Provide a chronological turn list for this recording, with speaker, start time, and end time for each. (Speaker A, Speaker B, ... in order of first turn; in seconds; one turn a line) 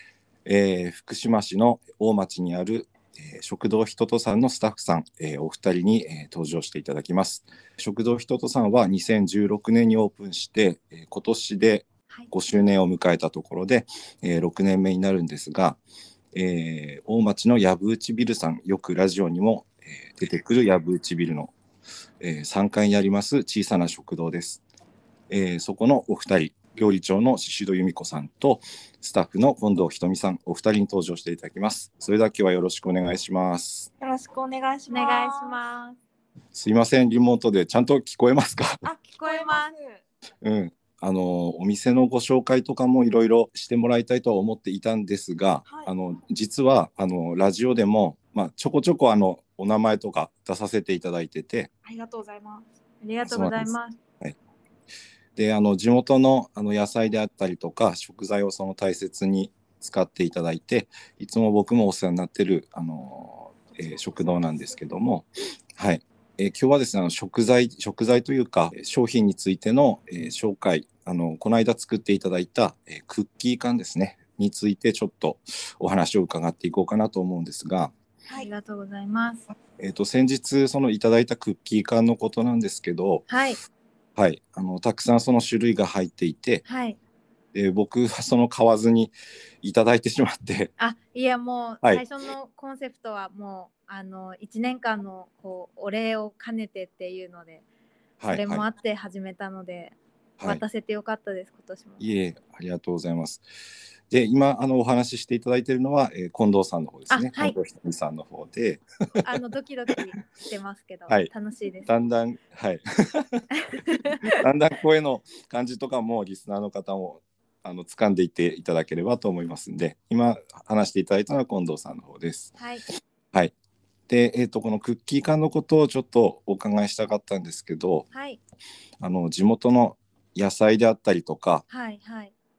Speaker A: 0.5-15.8
Speaker A: 16.3-21.5
Speaker A: 22.2-24.6
Speaker A: 25.3-33.9
Speaker B: 34.0-35.6
Speaker C: 34.9-36.0
Speaker A: 36.5-38.8
Speaker C: 38.8-39.7
Speaker B: 39.2-40.0
Speaker A: 40.4-51.7
Speaker B: 45.6-45.9
Speaker B: 51.9-52.7
Speaker C: 53.0-54.0
Speaker A: 53.2-54.4
Speaker A: 55.4-77.9
Speaker C: 78.3-79.4
Speaker A: 79.8-83.2
Speaker C: 83.3-83.6
Speaker A: 84.2-86.6
Speaker C: 86.7-87.0
Speaker A: 87.5-90.7
Speaker C: 90.8-97.6
Speaker A: 98.2-98.6
Speaker C: 98.3-102.1
Speaker A: 102.0-103.4
Speaker A: 104.1-108.8
Speaker C: 107.1-107.6
Speaker C: 109.2-111.9
Speaker A: 111.8-113.4
Speaker C: 113.5-114.4
Speaker A: 114.2-122.5
Speaker C: 122.6-122.8
Speaker A: 124.1-128.1
Speaker C: 128.1-128.4
Speaker A: 129.0-131.7
Speaker C: 131.7-132.3